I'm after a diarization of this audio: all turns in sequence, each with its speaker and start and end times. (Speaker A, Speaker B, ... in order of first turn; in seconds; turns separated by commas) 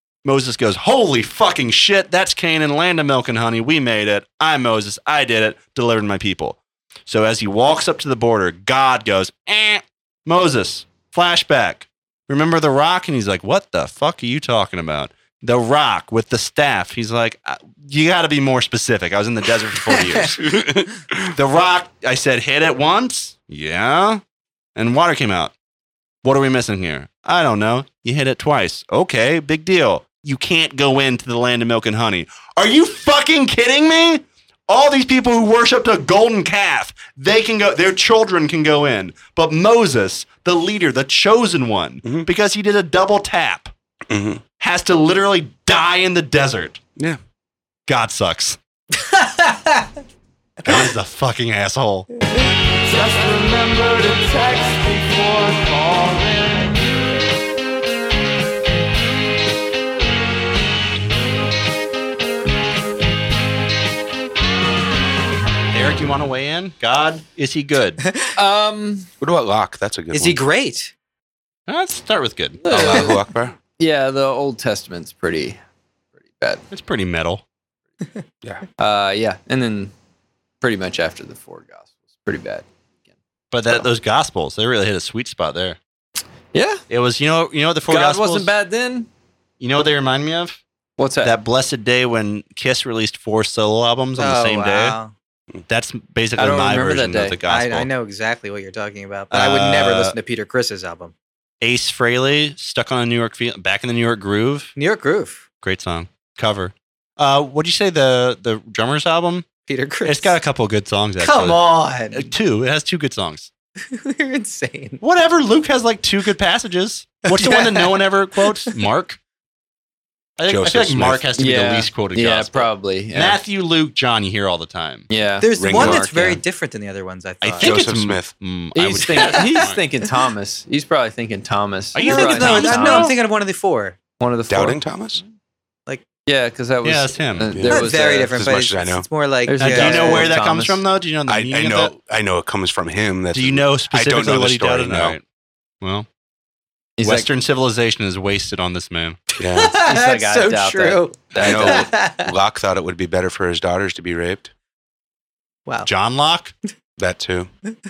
Speaker A: 0.2-20.6, Speaker B: 20.4-20.9, Speaker A: 21.3-24.2, Speaker A: 24.8-25.5, Speaker A: 26.2-43.7, Speaker B: 44.1-44.4, Speaker A: 44.6-46.8, Speaker A: 47.9-48.6, Speaker C: 49.2-49.8, Speaker A: 50.6-52.1, Speaker D: 52.6-57.1, Speaker A: 65.7-68.0, Speaker E: 68.4-69.1, Speaker B: 69.2-70.4, Speaker C: 70.1-70.9, Speaker A: 71.7-72.6, Speaker E: 72.6-73.2, Speaker B: 72.7-73.6, Speaker E: 73.8-75.6, Speaker E: 76.3-76.6, Speaker A: 76.7-77.4, Speaker E: 78.8-79.9, Speaker E: 80.6-82.7, Speaker A: 83.5-85.8, Speaker E: 86.5-86.8, Speaker A: 86.9-88.5, Speaker E: 87.9-89.1, Speaker A: 89.6-90.6, Speaker E: 91.0-91.4, Speaker A: 91.2-95.0, Speaker C: 94.2-95.1, Speaker A: 95.7-97.9, Speaker E: 96.4-97.4, Speaker C: 97.5-101.1, Speaker A: 99.3-100.2, Speaker A: 101.6-104.8, Speaker C: 104.8-105.5, Speaker A: 105.6-109.5, Speaker C: 109.7-110.4, Speaker A: 110.0-113.5, Speaker C: 111.2-112.3, Speaker C: 113.9-115.0, Speaker A: 115.0-119.2, Speaker C: 117.3-118.8, Speaker A: 120.4-125.1, Speaker B: 120.5-121.2, Speaker E: 121.4-123.4, Speaker E: 125.1-126.2, Speaker C: 125.4-127.8, Speaker B: 125.6-126.3, Speaker A: 127.4-129.8, Speaker B: 127.6-128.3, Speaker E: 128.8-133.1, Speaker C: 129.2-129.6, Speaker A: 131.9-133.1, Speaker C: 132.0-134.0, Speaker E: 134.2-134.8, Speaker B: 134.5-135.2, Speaker E: 136.3-138.5, Speaker A: 136.8-137.5, Speaker B: 137.5-139.1, Speaker C: 137.7-140.4, Speaker E: 139.5-140.8, Speaker A: 139.6-141.9, Speaker B: 141.3-145.2, Speaker A: 143.3-145.2, Speaker A: 145.8-146.1, Speaker E: 147.0-147.3, Speaker A: 147.0-149.2, Speaker C: 149.4-152.3, Speaker B: 149.4-149.7, Speaker E: 149.8-151.9, Speaker B: 151.4-154.5, Speaker A: 155.8-156.5, Speaker B: 157.0-157.5